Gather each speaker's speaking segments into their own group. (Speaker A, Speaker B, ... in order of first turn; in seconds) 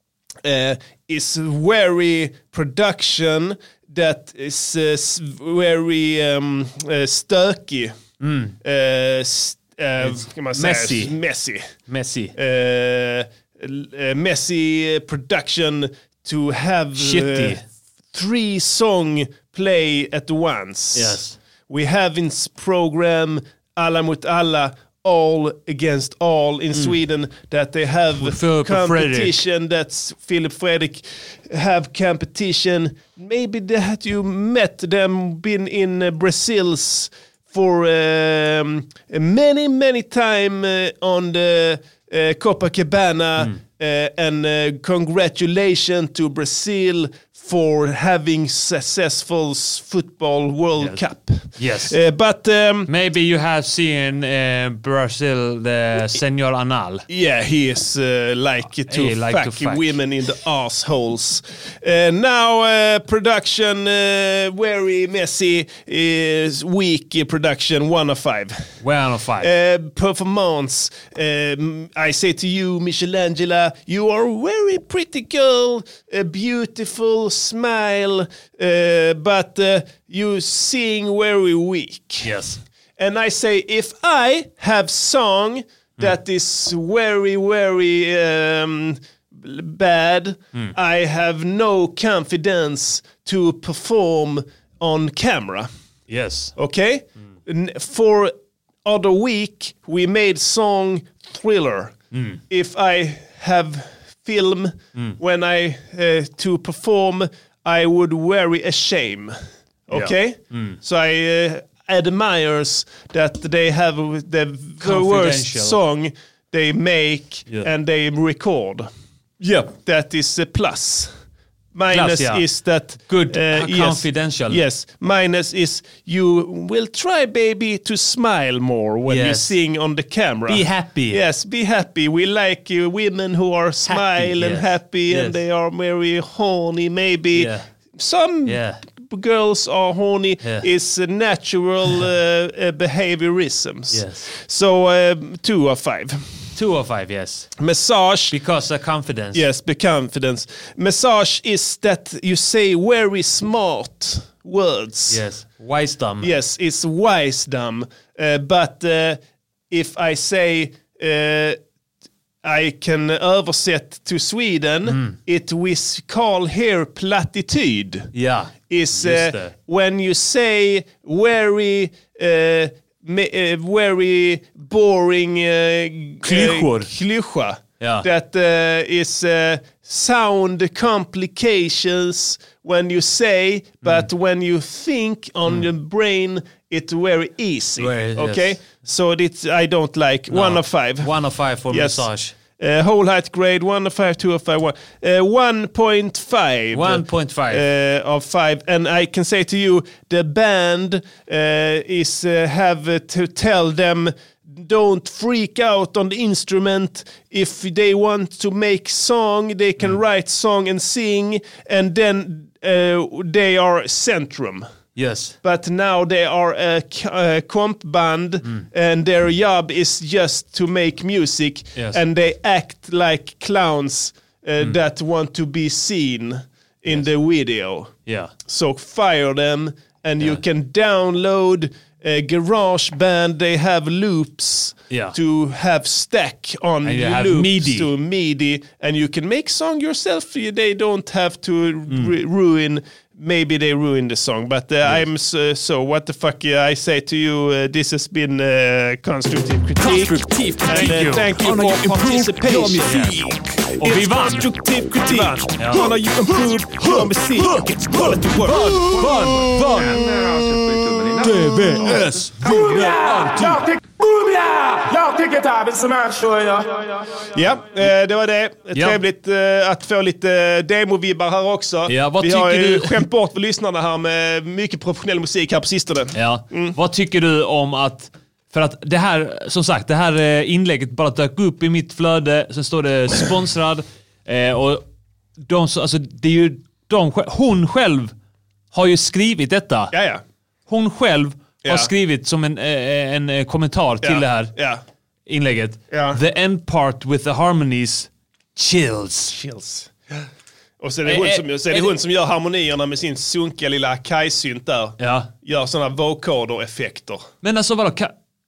Speaker A: 0.4-7.9, 8.6-11.7, 12.4-17.6, 18.1-52.9, 57.1-68.7, 69.4-82.3, 83.0-95.7, 96.6-98.3, 98.8-102.0, 102.5-109.4, 109.9-118.9, 119.4-121.1, 121.7-146.2, 147.6-148.3, 149.3-155.2, 156.2-159.2, 159.7-161.6, 162.4-168.1, 168.7-191.1, 191.7-192.1, 192.6-214.7, 215.4-227.9, 228.5-258.9, 267.3-276.7, 289.9-290.2, 291.6-291.9, 294.0-294.8, 295.9-296.2, 299.3-299.9, 300.8-307.3
Speaker B: 8.2-8.6, 10.0-11.2, 11.9-12.3, 17.0-17.6, 20.9-21.4, 28.1-29.4, 51.6-52.0, 52.9-57.0, 58.9-60.0, 68.8-69.5, 82.2-82.6, 96.1-96.5, 102.1-102.4, 109.9-110.8, 114.8-115.8, 121.9-124.6, 129.1-129.6, 130.5-131.2, 133.9-135.4, 137.3-137.7, 138.4-138.8, 143.9-144.3, 146.6-147.5, 148.3-149.4, 155.1-156.3, 164.9-165.2, 168.1-169.5, 176.2-176.9, 177.8-178.1, 183.8-184.1, 187.8-188.6, 190.3-192.3, 196.7-197.6, 214.9-215.4, 228.1-228.3, 234.9-235.1, 236.8-237.9, 249.8-254.5, 255.1-256.0, 256.8-259.9, 261.2-263.6, 271.9-273.1, 276.1-284.8, 285.4-288.1, 288.7-289.9, 290.7-294.5, 295.3-299.3, 301.1-301.9, 305.0-305.3, 307.4-308.1
Speaker C: 258.9-262.9
Speaker D: 261.5-262.0, 264.8-266.4